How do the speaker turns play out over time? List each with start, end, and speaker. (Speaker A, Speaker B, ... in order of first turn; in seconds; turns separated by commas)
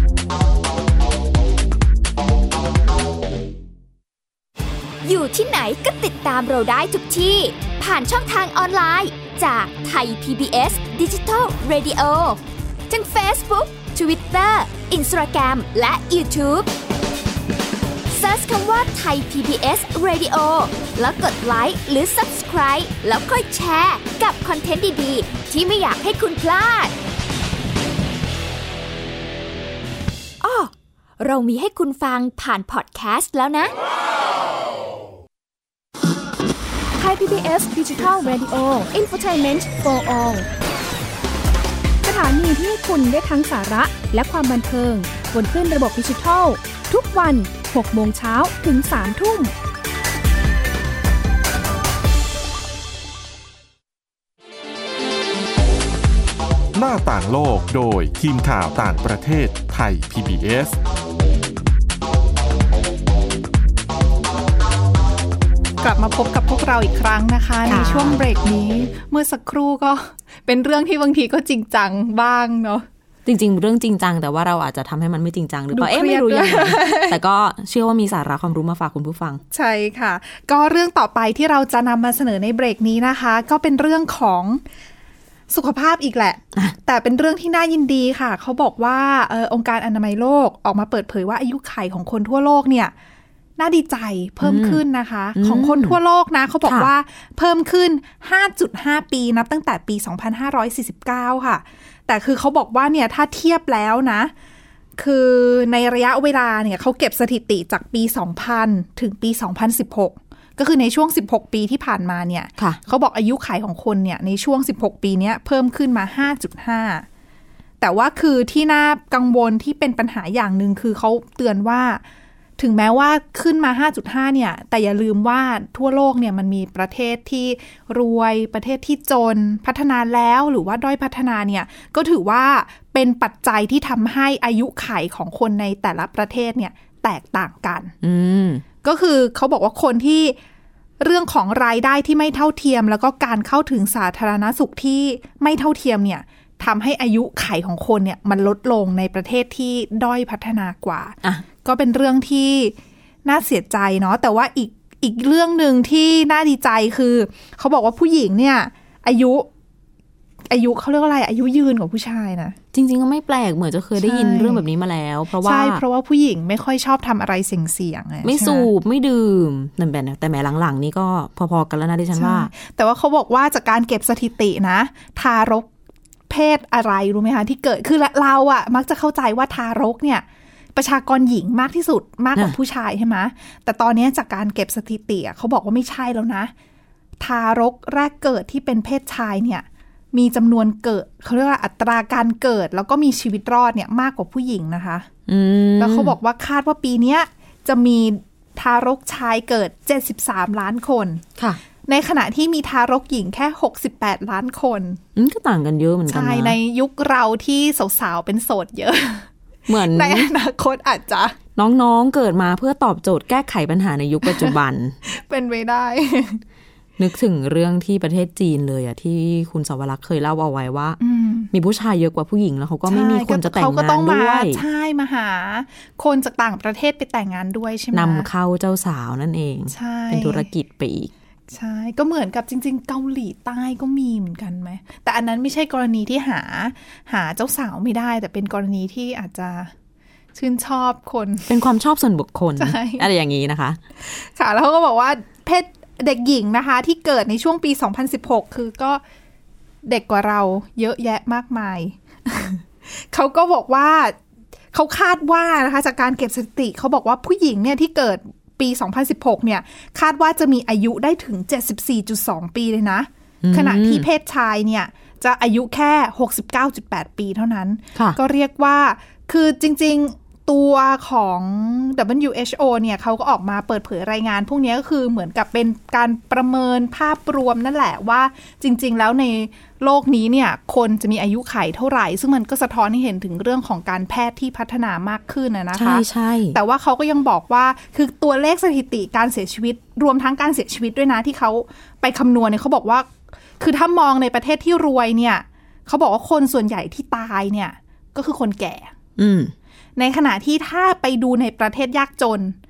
Speaker A: 5.0-16.7, Speaker A: 18.1-26.9, Speaker A: 30.4-33.7, Speaker B: 37.0-40.5, Speaker B: 42.0-49.5, Speaker C: 56.7-60.8, Speaker D: 65.8-72.8, Speaker E: 67.7-68.2, Speaker E: 73.2-79.4, Speaker D: 75.7-77.2, Speaker D: 79.5-84.6, Speaker D: 85.5-92.9, Speaker D: 93.6-104.3, Speaker E: 94.4-94.8, Speaker E: 95.3-96.0, Speaker E: 96.6-96.9, Speaker D: 105.0-117.0, Speaker D: 117.8-122.0, Speaker D: 122.6-137.9, Speaker E: 138.0-138.6, Speaker D: 138.8-140.4, Speaker D: 141.0-159.5, Speaker D: 160.5-162.6, Speaker E: 162.7-165.8, Speaker D: 164.0-164.6, Speaker D: 165.4-168.7, Speaker E: 168.2-172.5, Speaker D: 172.1-175.7, Speaker D: 176.3-186.5, Speaker D: 187.2-195.1, Speaker E: 195.3-196.1, Speaker D: 195.8-201.2, Speaker D: 201.8-205.0, Speaker E: 205.2-206.6, Speaker D: 206.1-211.4, Speaker E: 209.7-210.3, Speaker E: 211.6-215.0, Speaker D: 214.2-216.4, Speaker E: 217.0-221.0, Speaker D: 221.0-221.5, Speaker E: 221.5-224.6, Speaker D: 222.9-228.3, Speaker E: 227.9-231.1, Speaker D: 229.7-230.5, Speaker D: 231.5-239.7, Speaker D: 240.3-241.5, Speaker E: 241.5-243.8, Speaker D: 242.6-243.1, Speaker D: 244.0-249.0, Speaker D: 249.8-254.2, Speaker D: 254.7-298.9, Speaker E: 263.4-264.1, Speaker E: 285.7-286.6, Speaker E: 299.2-299.5, Speaker D: 300.0-302.6